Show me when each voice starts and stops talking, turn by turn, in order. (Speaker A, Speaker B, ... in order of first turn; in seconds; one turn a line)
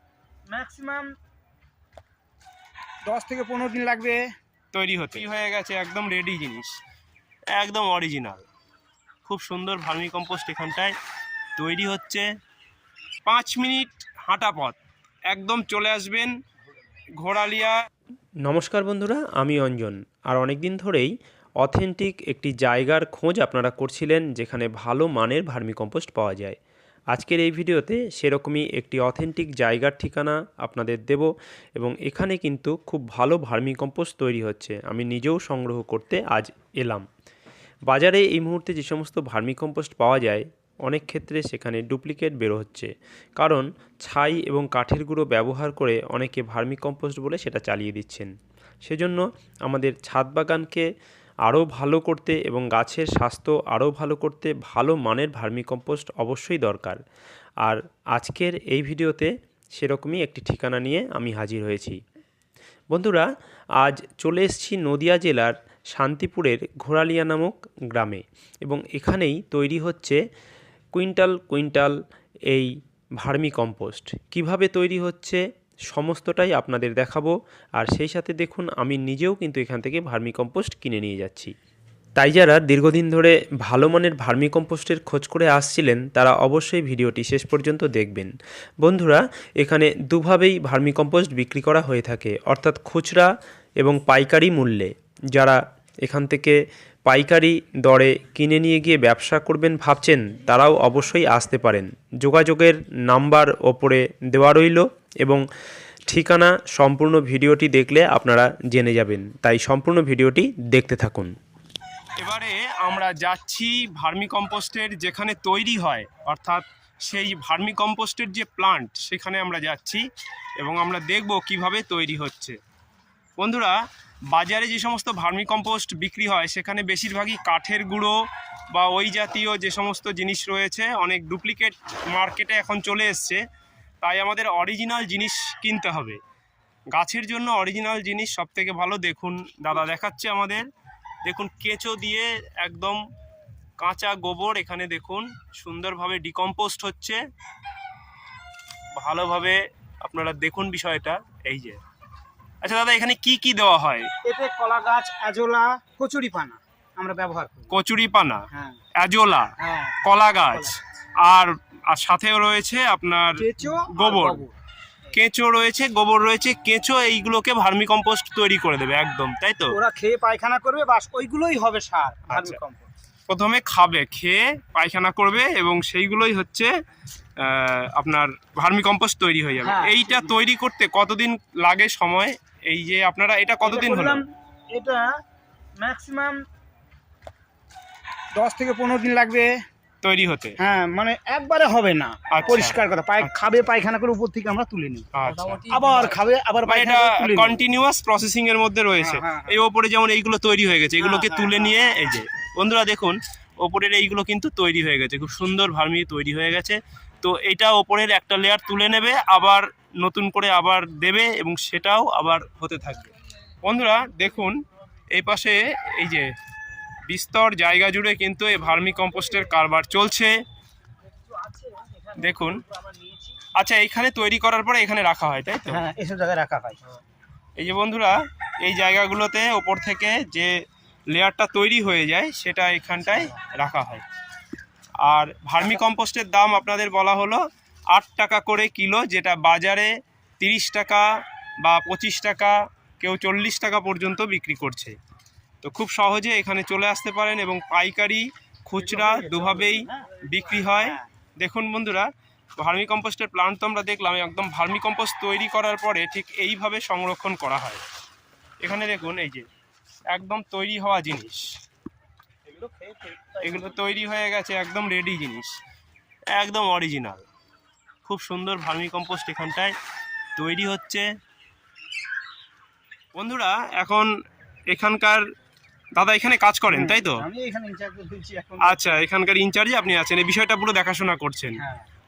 Speaker A: 0.5-1.1
Speaker A: 3.0-4.2
Speaker B: 4.7-6.8
Speaker B: 7.5-8.4
Speaker B: 9.2-10.9
Speaker B: 11.6-12.2
Speaker B: 13.2-14.8
Speaker B: 15.3-16.3
Speaker B: 17.2-17.8
Speaker C: 18.4-26.6
Speaker C: 27.1-37.0
Speaker C: 37.9-48.3
Speaker C: 48.8-50.9
Speaker C: 51.5-57.0
Speaker C: 57.6-62.0
Speaker C: 62.9-63.3
Speaker C: 63.8-70.2
Speaker C: 70.9-71.9
Speaker C: 72.5-81.5
Speaker C: 82.2-88.3
Speaker C: 88.8-93.3
Speaker C: 93.8-96.6
Speaker C: 97.1-105.4
Speaker C: 106.1-111.3
Speaker B: 112.2-120.0
Speaker B: 120.6-122.6
Speaker B: 123.4-123.8
Speaker B: 124.3-128.1
Speaker B: 128.7-133.4
Speaker B: 134.0-136.2
Speaker B: 136.9-140.7
Speaker B: 141.2-143.0
Speaker B: 143.8-147.2
Speaker B: 148.9-151.8
Speaker B: 152.6-154.1
Speaker A: 154.2-157.7
Speaker B: 157.7-158.4
Speaker A: 158.5-158.8
Speaker B: 158.9-159.5
Speaker A: 159.6-160.0
Speaker B: 160.0-164.4
Speaker A: 160.5-160.8
Speaker A: 163.4-164.5
Speaker B: 165.1-169.8
Speaker A: 169.7-172.9
Speaker B: 172.3-172.6
Speaker B: 173.3-176.7
Speaker B: 177.4-184.2
Speaker A: 179.6-180.3
Speaker A: 183.6-185.2
Speaker A: 185.8-186.4
Speaker A: 188.3-189.5
Speaker B: 190.0-190.5
Speaker A: 190.6-197.6
Speaker B: 192.3-193.7
Speaker B: 195.1-195.8
Speaker B: 196.6-213.1
Speaker A: 199.0-199.6
Speaker A: 201.0-201.9
Speaker B: 213.6-214.6
Speaker B: 215.1-216.3
Speaker B: 217.1-220.3
Speaker A: 221.3-223.4
Speaker B: 222.2-222.6
Speaker B: 223.5-225.8
Speaker A: 225.7-226.9
Speaker B: 227.6-230.5
Speaker B: 231.1-234.0
Speaker B: 235.0-241.1
Speaker B: 241.6-244.9
Speaker B: 245.6-257.8
Speaker A: 248.8-251.1
Speaker B: 258.6-259.4
Speaker B: 260.1-261.5
Speaker A: 262.4-263.9
Speaker B: 263.4-265.6
Speaker B: 266.3-267.2
Speaker B: 268.0-269.7
Speaker B: 270.4-271.0
Speaker B: 273.1-274.1
Speaker B: 274.7-275.2
Speaker B: 276.0-277.2
Speaker A: 276.7-279.1
Speaker B: 278.6-281.6
Speaker A: 281.6-281.9